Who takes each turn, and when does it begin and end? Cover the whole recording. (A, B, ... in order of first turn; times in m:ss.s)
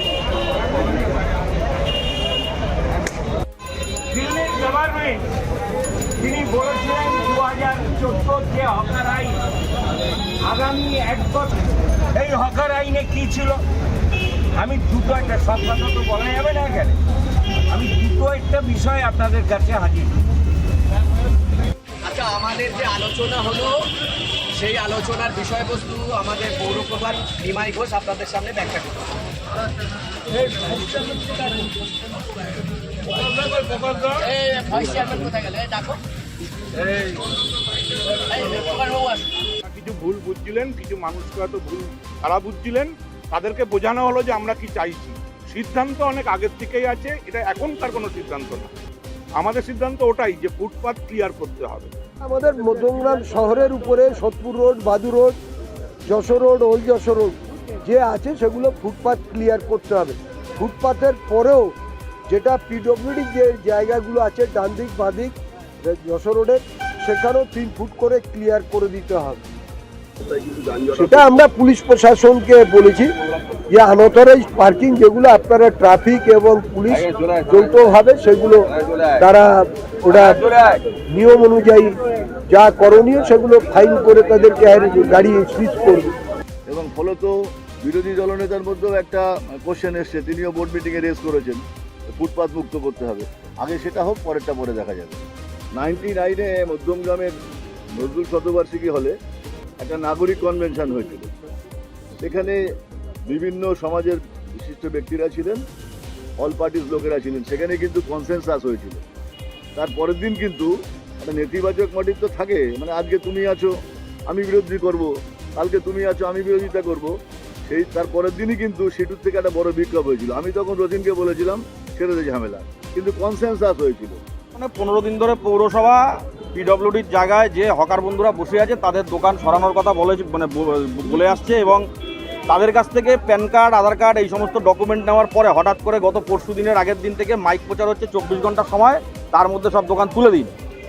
0:04.1-0:05.2 A
0:06.2-0:09.4 A
0:10.4-0:11.6 A
0:12.1-0:13.6 A
0:14.5-0:17.0 A
0:17.7-0:20.1 A
0:22.0-0:23.8 B
0:24.5-0:29.0 B
0:33.1-0:34.2 C
0:34.2-0:36.0 B
0:38.3-0:39.3 B
0:39.6-0:48.7 C
0:49.4-0:51.9 C
0:52.3-0:55.4 D
0:56.1-1:01.7 D
1:02.3-1:09.4 D
1:10.4-1:10.8 E
1:10.9-1:13.1 D
1:13.7-1:22.0 D
1:22.5-1:26.1 D
1:26.7-1:35.2 E
1:35.7-1:37.3 E
1:38.0-1:39.1 E
1:39.8-1:41.3 E
1:42.2-1:42.6 E
1:43.3-1:45.6 E
1:46.4-1:49.0 E
1:49.8-1:53.7 E
1:54.3-1:57.1 E
1:57.6-2:04.2 E
2:04.6-2:11.8 F
2:12.5-2:20.5 F